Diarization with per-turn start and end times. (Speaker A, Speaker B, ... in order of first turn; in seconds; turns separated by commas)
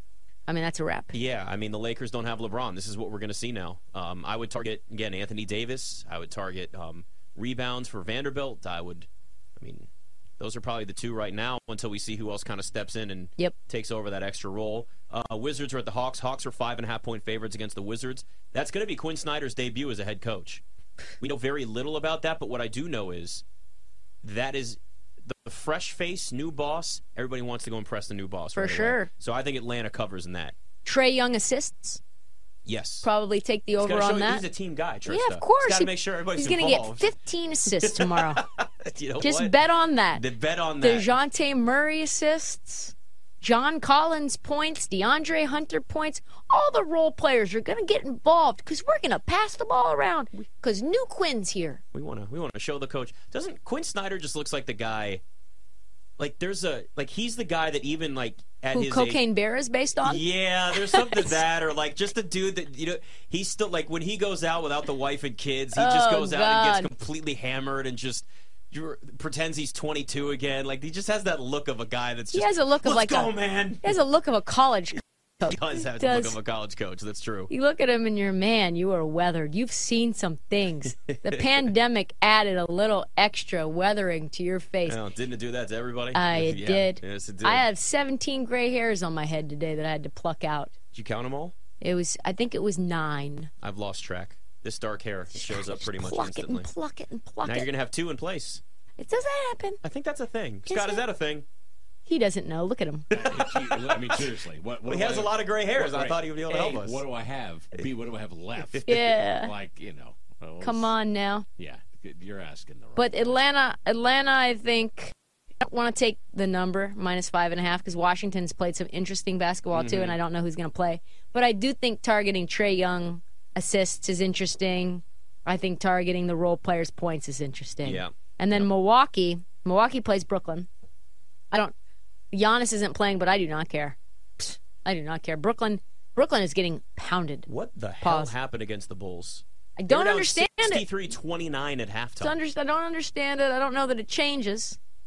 Speaker A: 0.5-1.1, Speaker B: 1.1-20.6, Speaker B: 21.2-23.4, Speaker B: 24.2-30.6, Speaker A: 28.6-29.1, Speaker A: 30.8-32.0, Speaker B: 32.6-33.1, Speaker A: 33.0-34.4, Speaker B: 33.8-37.1, Speaker A: 35.1-38.4, Speaker B: 37.7-39.5, Speaker A: 39.2-40.2, Speaker B: 40.1-41.1, Speaker A: 40.8-51.8, Speaker B: 51.9-55.2, Speaker B: 56.2-59.2, Speaker A: 58.7-61.4, Speaker B: 60.0-74.0, Speaker A: 65.7-66.9, Speaker A: 72.3-76.4, Speaker B: 75.4-77.5, Speaker A: 77.5-85.0, Speaker B: 80.9-81.7, Speaker B: 84.8-87.7, Speaker A: 86.1-90.7, Speaker B: 90.9-91.5, Speaker A: 91.8-93.5, Speaker B: 93.6-96.7, Speaker A: 95.3-97.7, Speaker B: 97.4-98.6, Speaker A: 99.0-99.8, Speaker B: 99.8-101.5, Speaker A: 100.7-101.0, Speaker A: 102.0-103.1, Speaker B: 103.1-107.0, Speaker C: 103.1-110.9, Speaker A: 108.8-109.5, Speaker A: 110.6-111.5, Speaker C: 111.6-113.3, Speaker A: 113.0-130.7, Speaker B: 119.7-120.2, Speaker B: 127.8-128.7, Speaker A: 132.3-137.5, Speaker B: 137.4-142.4, Speaker A: 138.0-138.3, Speaker A: 139.8-140.8, Speaker A: 142.2-144.8